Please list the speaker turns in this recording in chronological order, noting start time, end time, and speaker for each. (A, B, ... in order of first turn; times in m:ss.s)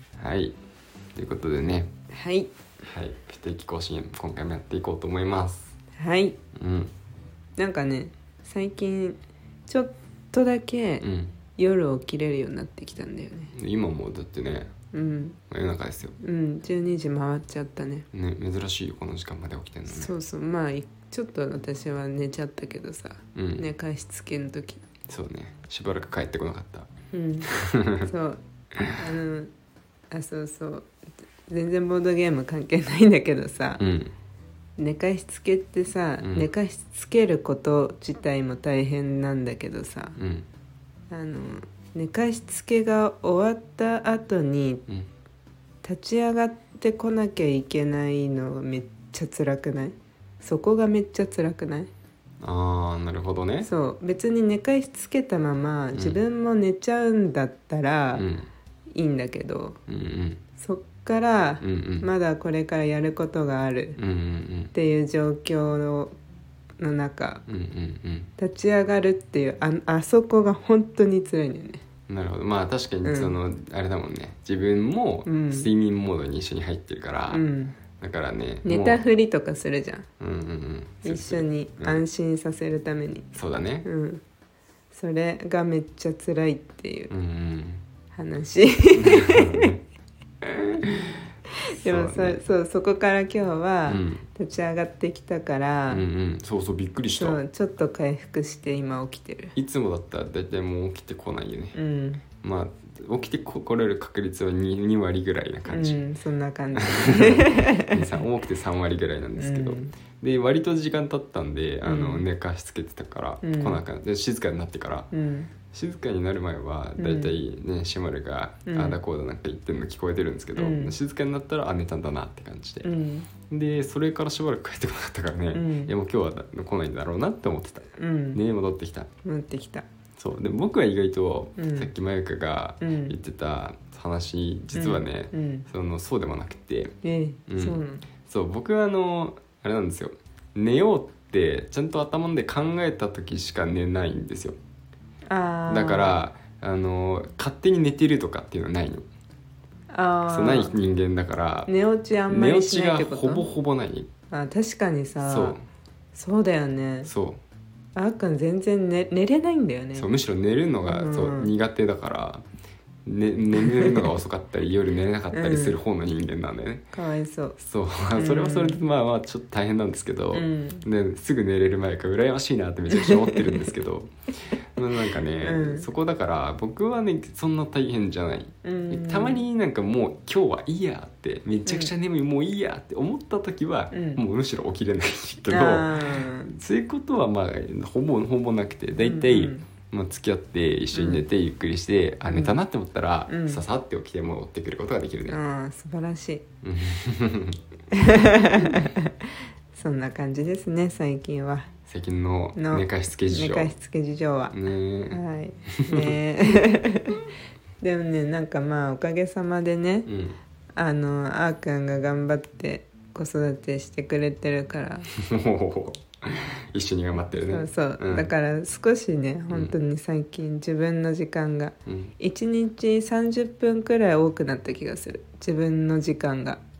0:00.2-0:00.6 A
0:01.2-0:01.9 A
0:02.1-0:02.5 B
0:02.8-0:05.7 A
0:06.0-0:06.4 B
0:06.6-0:06.9 A
0:07.6-0:13.5 B
0:11.0-0:11.4 A
0:13.5-0:14.7 A
0:14.9-0:15.4 B
0:15.5-0:16.2 A
0:16.2-0:18.1 B
0:18.1-0:20.1 A
0:19.9-0:24.8 B
0:23.4-0:23.7 A
0:25.1-0:26.9 A
0:27.1-0:27.5 B
0:27.5-0:28.1 A
0:28.0-0:28.4 B
0:28.9-0:29.5 B
0:30.1-0:30.9 B
0:31.5-0:33.8 B
0:33.8-0:34.1 A
0:34.8-0:40.2 B
0:36.2-0:36.5 A
0:40.2-0:40.5 A
0:41.1-0:44.8 B
0:45.8-0:51.9 B
0:52.4-0:53.7 A
0:53.6-0:58.3 B
0:58.1-0:58.5 A
0:58.9-0:59.8 B
0:59.9-1:00.4 A
1:00.6-1:04.0 B
1:01.6-1:02.1 A
1:04.0-1:04.7 A
1:04.7-1:06.2 B
1:06.8-1:07.4 B
1:07.5-1:08.3 A
1:08.4-1:11.8 B
1:12.1-1:17.5 A
1:13.0-1:13.4 B
1:15.3-1:15.7 B
1:17.3-1:17.8 B
1:18.0-1:19.0 A
1:18.6-1:20.1 B
1:20.2-1:22.0 A
1:21.0-1:23.3 B
1:23.3-1:23.9 A
1:23.8-1:24.2 B
1:24.9-1:27.1 B
1:27.1-1:27.8 A
1:28.1-1:29.7 B
1:29.0-1:29.8 A
1:30.4-1:31.2 A
1:31.7-1:36.0 B
1:31.8-1:32.4 A
1:33.9-1:34.3 A
1:35.9-1:37.4 A
1:37.1-1:39.6 B
1:39.6-1:41.8 A
1:41.8-1:42.2 B
1:42.4-1:46.0 A
1:45.7-1:48.2 B
1:46.8-1:55.1 A
1:49.4-1:49.9 B
1:51.8-1:52.2 B
1:53.4-1:53.8 B
1:55.1-1:55.5 B
1:55.7-2:02.9 A
1:57.0-1:57.4 B
1:58.7-1:59.0 B
2:00.6-2:00.9 B
2:02.8-2:03.3 B
2:03.5-2:09.1 A
2:05.5-2:05.9 B
2:08.0-2:08.4 B
2:09.2-2:09.8 B
2:10.2-2:17.0 A
2:11.6-2:11.9 B
2:12.8-2:13.1 B
2:14.7-2:15.7 B
2:17.0-2:18.0 B
2:17.5-2:24.6 A
2:25.3-2:26.2 B
2:25.7-2:29.0 A
2:29.9-2:30.8 B
2:30.3-2:31.7 A
2:31.7-2:33.4 B
2:32.3-2:34.1 A
2:34.3-2:35.6 B
2:35.2-2:35.6 A
2:36.1-2:37.1 B
2:37.0-2:37.4 A
2:38.0-2:40.1 B
2:39.9-2:42.4 A
2:40.9-2:41.5 B
2:43.1-2:46.9 A
2:43.6-2:44.1 B
2:45.3-2:45.8 B
2:46.9-2:47.6 B
2:47.6-2:54.1 A
2:48.2-2:48.8 B
2:50.3-2:50.8 B
2:52.9-2:53.7 B
2:54.8-3:15.4 A
2:55.4-2:55.9 B
2:58.6-2:59.4 B
3:01.7-3:01.9 B
3:03.9-3:04.2 B
3:05.5-3:06.5 B
3:09.0-3:09.7 B
3:10.9-3:11.2 B
3:12.3-3:12.6 B
3:13.3-3:13.6 B
3:15.3-3:16.4 B
3:16.6-3:17.6 A
3:17.9-3:21.7 B
3:21.9-3:23.7 A
3:22.6-3:24.6 B
3:24.5-3:25.2 A
3:25.1-3:27.3 B
3:25.8-3:26.2 A
3:27.8-3:30.1 B
3:30.1-3:30.4 A
3:30.8-3:35.1 B
3:35.2-3:38.3 A
3:37.5-3:46.6 B
3:39.5-3:39.8 A
3:41.9-3:42.1 A